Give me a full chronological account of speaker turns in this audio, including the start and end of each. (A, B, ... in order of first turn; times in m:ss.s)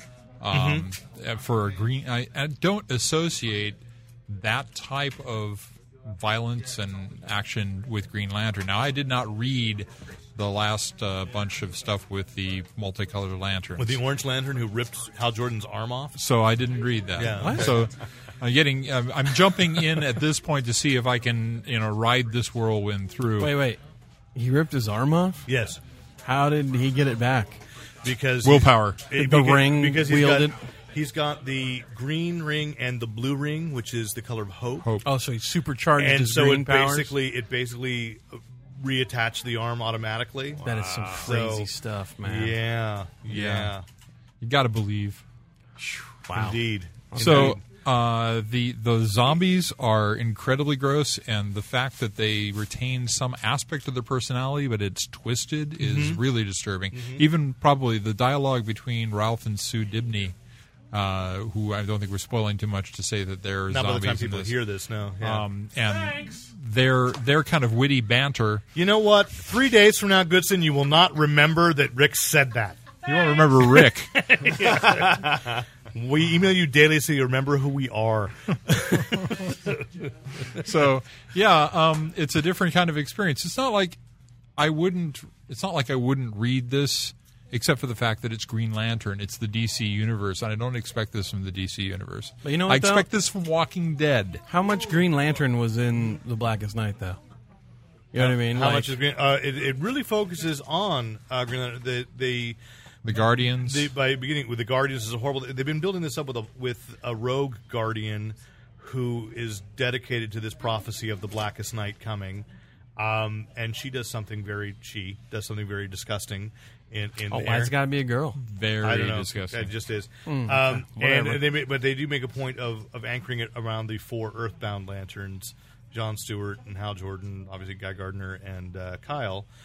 0:00.4-0:14.0 A
0:00.5-0:00.9 B
0:13.8-0:16.2 B
0:16.2-0:23.6 A
0:17.2-0:17.9 B
0:17.3-0:17.8 C
0:23.4-0:23.8 C
0:24.3-0:25.4 C
0:25.4-0:25.8 B
0:26.2-0:27.6 C
0:28.0-0:34.9 B
0:28.4-0:29.1 A
0:29.2-0:30.5 C
0:34.8-0:35.1 A
0:35.0-0:37.1 C
0:36.0-0:41.7 B
0:40.6-0:42.6 C
0:42.2-0:43.8 B
0:43.3-0:43.7 A
0:44.4-0:45.2 A
0:45.8-0:46.6 C
0:46.3-0:47.6 B
0:47.1-0:47.6 C
0:47.1-1:00.3 A
0:55.8-0:56.2 B
0:56.9-0:57.3 B
1:00.9-1:04.6 A
1:03.7-1:05.5 B
1:05.2-1:08.6 A
1:08.7-1:13.0 B
1:13.0-1:14.1 A
1:13.6-1:20.0 B
1:20.5-1:24.0 A
1:24.6-1:34.4 A
1:32.4-1:33.1 C
1:34.5-1:37.2 C
1:38.1-1:38.9 C
1:38.1-1:42.6 B
1:43.0-1:43.9 A
1:43.1-1:57.7 B
1:57.3-1:58.4 C
1:58.4-1:59.7 A
1:58.8-2:09.5 B
2:00.2-2:01.5 C